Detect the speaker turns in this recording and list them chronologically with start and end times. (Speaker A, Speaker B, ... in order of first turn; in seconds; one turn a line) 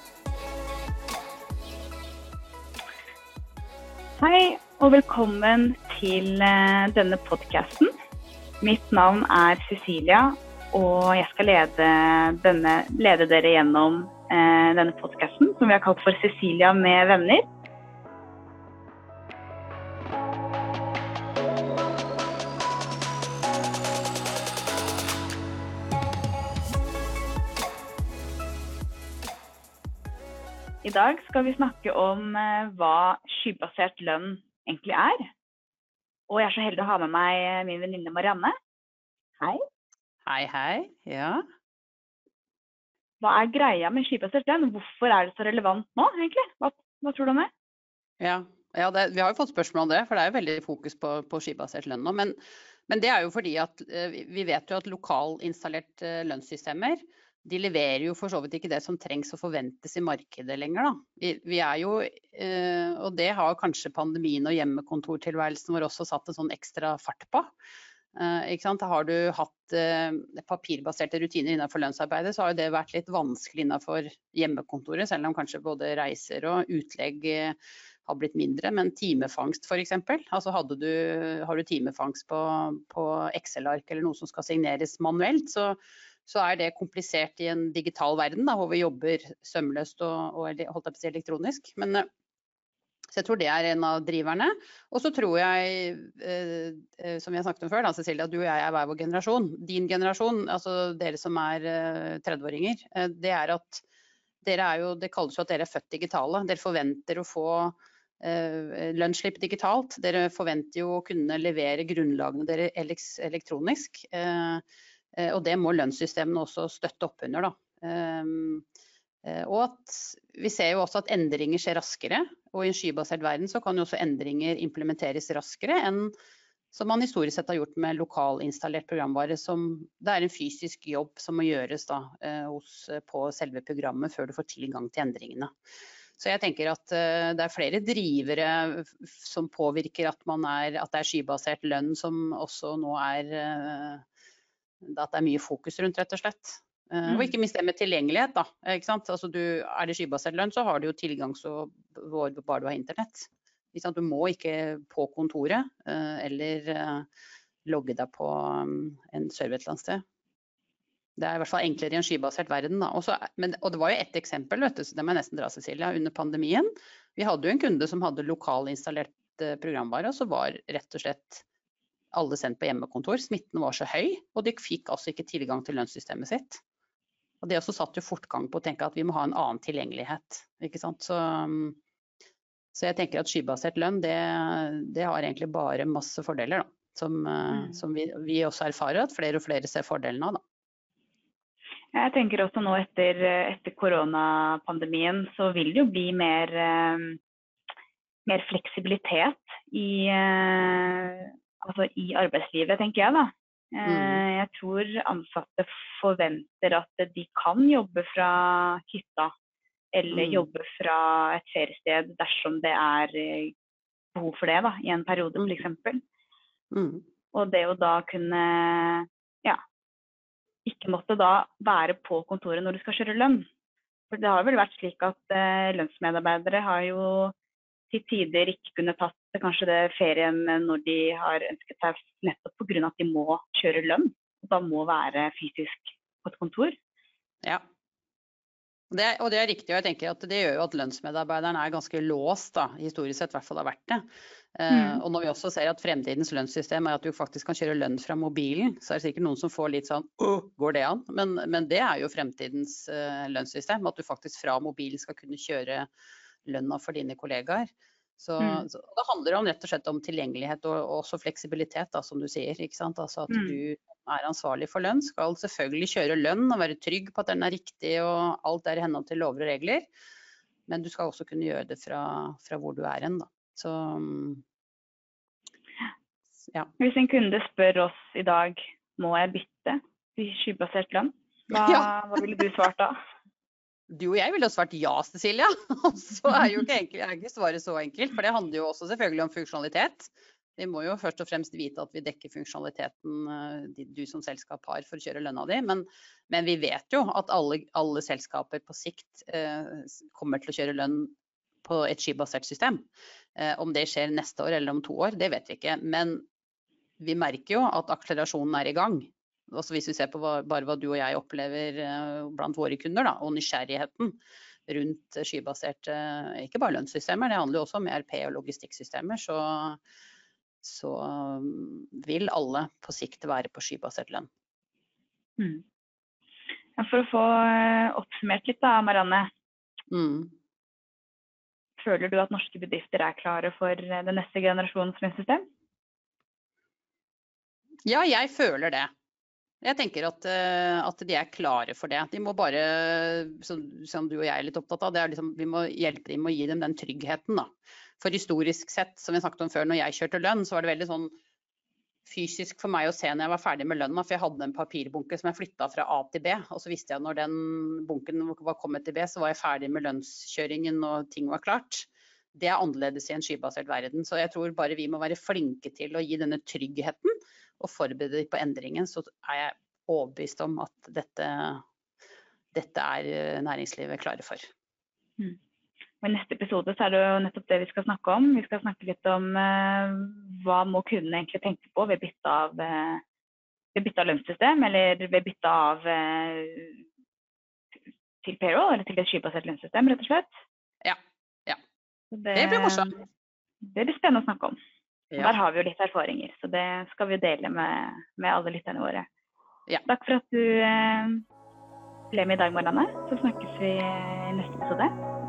Speaker A: 4.2-7.9
Speaker A: 8.6-17.4
Speaker A: 30.8-35.3
Speaker A: 36.3-38.5
Speaker B: 40.3-41.4
Speaker A: 43.2-47.5
Speaker B: 48.2-52.4
Speaker B: 52.9-67.5
Speaker B: 68.2-92.1
Speaker B: 93.1-103.8
Speaker B: 104.4-114.6
Speaker B: 115.2-118.7
Speaker B: 119.2-126.1
Speaker B: 126.7-135.5
Speaker B: 136.2-144.0
Speaker B: 144.8-157.1
Speaker A: 147.1-147.3
Speaker B: 157.7-160.0
Speaker B: 161.2-171.4
Speaker B: 172.1-176.6
Speaker B: 177.4-181.8
Speaker B: 182.7-190.4
Speaker A: 187.5-187.8
Speaker A: 191.9-197.2
Speaker A: 198.3-209.3
Speaker B: 203.8-204.2
Speaker A: 209.9-213.5
Speaker B: 210.1-210.5
Speaker A: 214.2-216.0
Speaker B: 216.7-217.0
Speaker A: 217.3-219.6
Speaker A: 220.7-223.4
Speaker A: 224.1-227.3
Speaker A: 227.9-236.8
Speaker B: 238.9-244.1
Speaker B: 244.6-255.9
Speaker A: 244.7-245.0
Speaker B: 256.5-269.9
Speaker A: 258.4-258.7
Speaker A: 263.3-263.6
Speaker B: 270.7-274.4
Speaker A: 276.8-282.9
Speaker B: 281.5-281.9
Speaker B: 283.9-306.2
Speaker B: 307.0-319.8
Speaker B: 320.6-324.3
Speaker A: 325.4-325.6
Speaker A: 326.8-329.3
Speaker B: 329.9-330.3
Speaker A: 331.8-335.4
Speaker B: 337.9-338.9
Speaker B: 339.6-347.5
Speaker B: 348.0-351.1
Speaker B: 352.1-371.6
Speaker B: 372.5-374.5
Speaker A: 376.0-383.0
Speaker A: 383.7-386.8
Speaker A: 388.2-390.3
Speaker B: 390.8-391.6
Speaker A: 392.1-393.0
Speaker B: 392.3-392.9
Speaker A: 393.6-394.6
Speaker B: 395.1-395.4
Speaker A: 395.2-399.1
Speaker A: 399.9-401.2
Speaker A: 402.1-404.9